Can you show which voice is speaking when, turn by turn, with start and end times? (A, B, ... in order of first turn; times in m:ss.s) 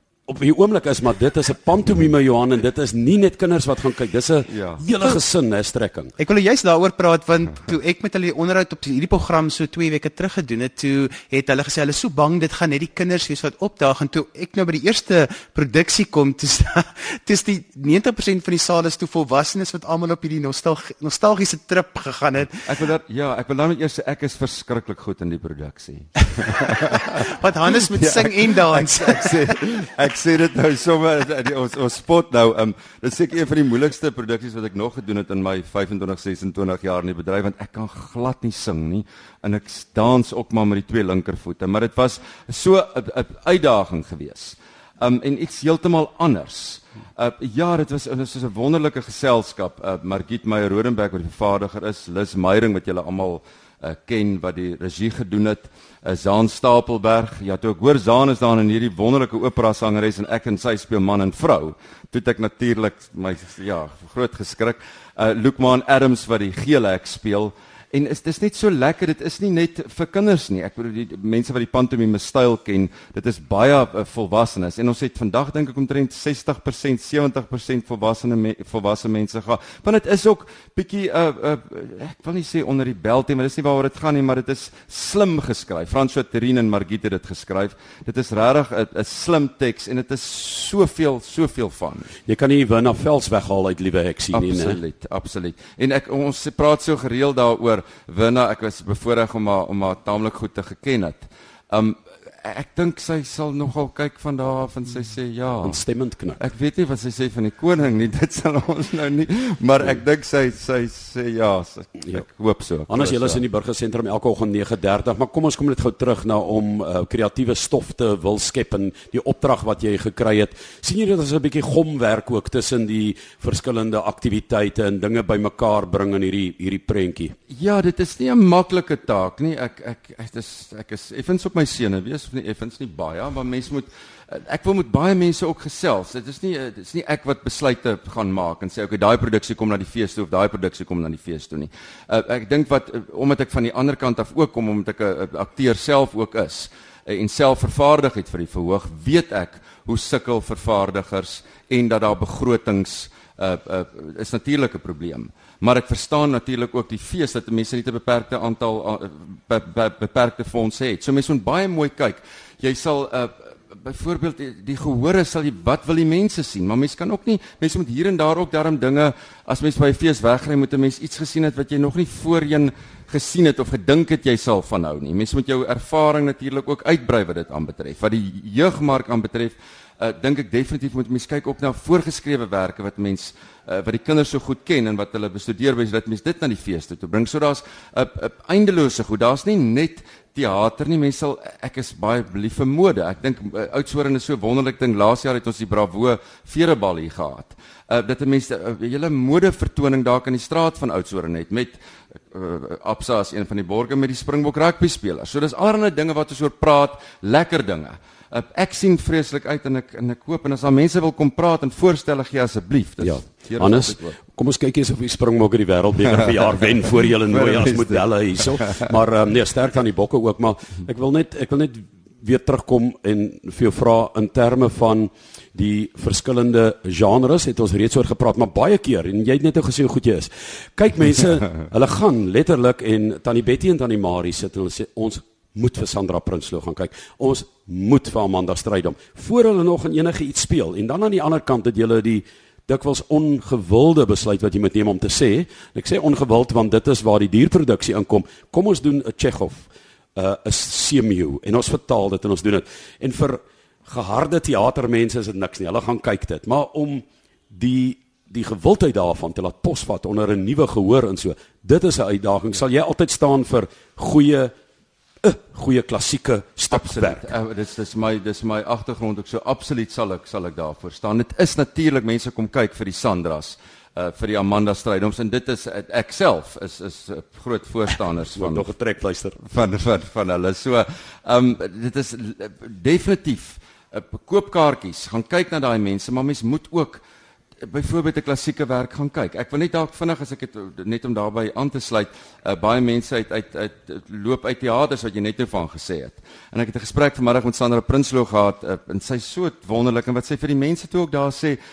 0:00.3-0:06.1 A
0:04.5-0:04.8 B
0:06.2-0:22.6 C
0:22.6-1:32.1 B
0:27.1-0:29.5 C
1:32.2-1:34.8 A
1:34.3-1:45.8 B
1:45.6-1:46.4 A
1:46.4-1:53.4 B
1:52.9-2:07.3 A
2:07.5-3:34.2 B
3:33.0-4:24.5 A
3:36.1-3:36.5 B
3:37.3-3:38.9 B
4:25.2-4:27.3 A
4:26.7-4:38.7 B
4:38.3-4:39.4 A
4:39.4-4:47.0 B
4:47.6-5:01.6 B